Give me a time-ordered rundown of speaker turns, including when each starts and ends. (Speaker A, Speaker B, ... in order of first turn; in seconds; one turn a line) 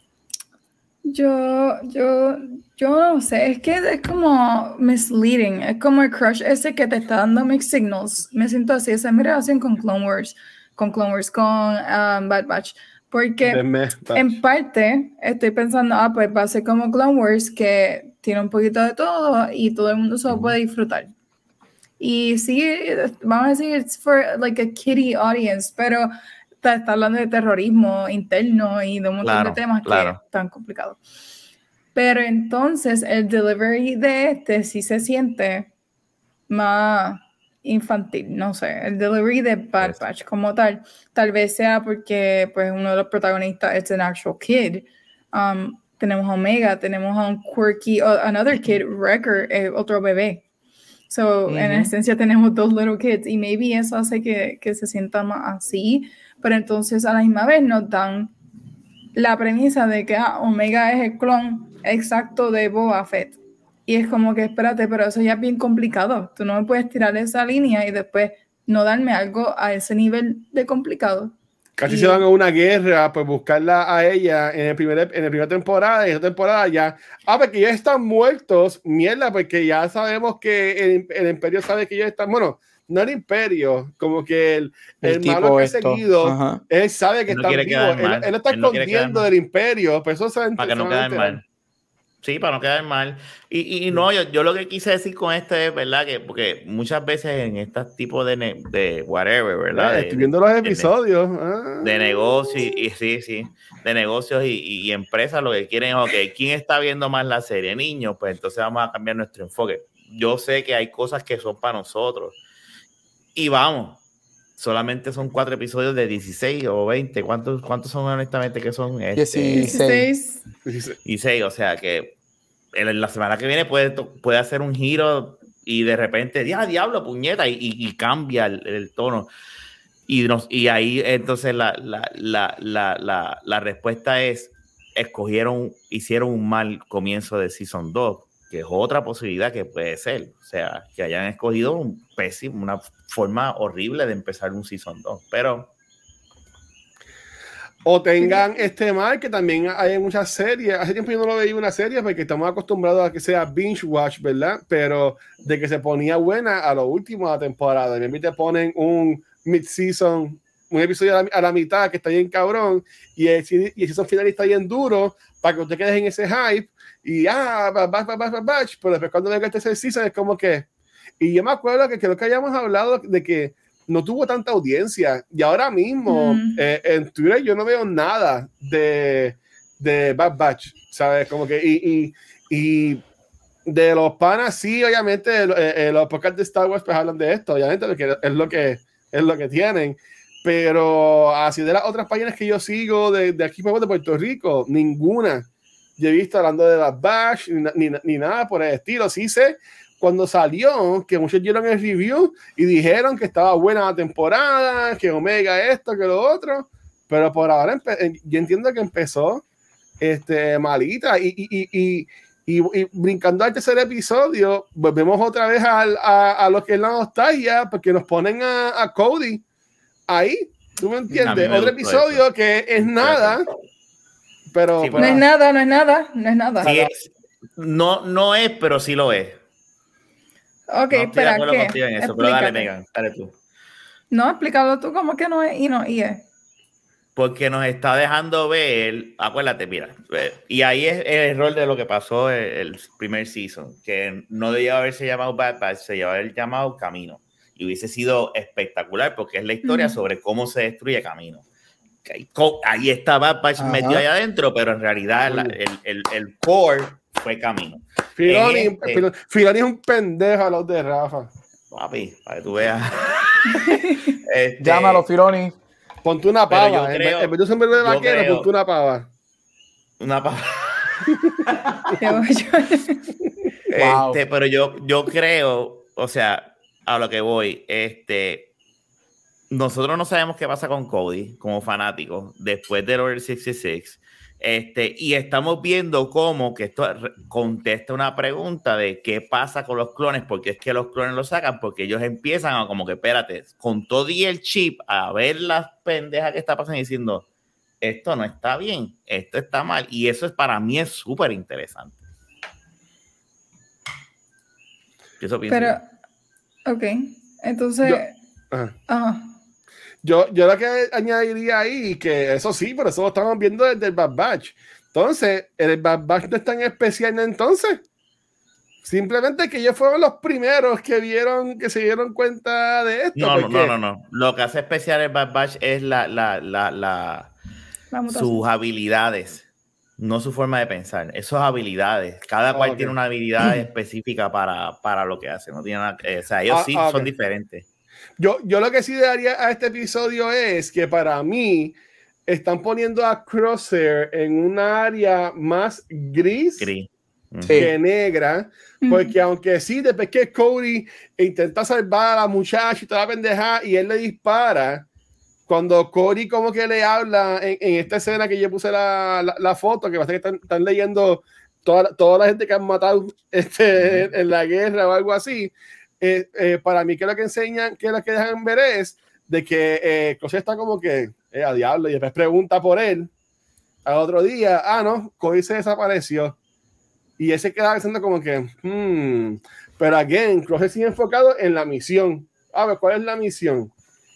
Speaker A: 1.1-13.6
Speaker B: 13.4-14.4
Speaker A: 14.1-21.1
Speaker C: 20.3-20.6
Speaker A: 22.0-26.1
Speaker A: 26.6-31.0
Speaker C: 29.2-30.2
Speaker A: 31.9-35.7
Speaker A: 36.5-50.4
Speaker A: 51.1-58.3
Speaker D: 51.5-51.9
Speaker A: 59.1-72.2
Speaker B: 71.8-91.4
Speaker D: 85.0-86.6
Speaker C: 87.3-89.3
Speaker C: 90.6-91.4
Speaker C: 92.2-100.9
Speaker B: 99.7-102.0
Speaker C: 101.8-112.4
Speaker C: 113.3-114.0
Speaker C: 114.6-119.8
Speaker D: 119.1-120.1
Speaker A: 119.5-120.4
Speaker B: 120.7-121.0
Speaker C: 121.0-122.2
Speaker C: 122.7-129.3
Speaker C: 130.1-145.7
Speaker B: 147.8-170.7
Speaker A: 148.2-148.6
Speaker B: 171.2-183.0
Speaker A: 176.1-176.6
Speaker B: 183.7-195.4
Speaker B: 196.0-209.4
Speaker B: 210.0-219.4
Speaker B: 220.1-223.4
Speaker C: 221.1-222.2
Speaker C: 222.8-223.4
Speaker B: 224.5-225.2
Speaker C: 224.8-225.2
Speaker A: 225.0-226.7
Speaker B: 226.6-226.9
Speaker C: 226.6-229.4
Speaker A: 230.7-232.7
Speaker C: 230.9-233.3
Speaker A: 234.1-236.2
Speaker C: 237.2-251.4
Speaker A: 249.6-250.0
Speaker C: 252.0-259.1
Speaker D: 253.6-254.0
Speaker B: 255.3-255.6
Speaker B: 258.2-261.3
Speaker C: 261.7-263.7
Speaker A: 263.4-264.2
Speaker C: 264.2-265.1
Speaker D: 264.6-265.5
Speaker B: 266.0-269.1
Speaker C: 266.5-268.5
Speaker C: 270.0-271.0
Speaker B: 271.1-271.4
Speaker A: 272.0-273.0
Speaker C: 273.7-278.5
Speaker D: 273.7-274.2
Speaker C: 279.5-297.2
Speaker C: 297.8-302.0
Speaker C: 305.2-305.8
Speaker A: 305.5-305.9
Speaker A: 306.7-308.1
Speaker B: 307.8-308.7
Speaker A: 308.9-309.3
Speaker B: 310.0-317.8
Speaker B: 318.8-323.7
Speaker C: 323.1-327.3
Speaker A: 327.9-328.4
Speaker C: 328.1-329.4
Speaker C: 330.0-337.6
Speaker B: 332.5-332.9
Speaker B: 336.5-337.1
Speaker B: 338.2-346.7
Speaker C: 346.6-347.7
Speaker D: 347.4-347.7
Speaker B: 347.5-354.9
Speaker A: 348.8-349.1
Speaker B: 355.5-373.1
Speaker C: 363.8-364.1
Speaker B: 373.9-376.4
Speaker B: 377.2-383.7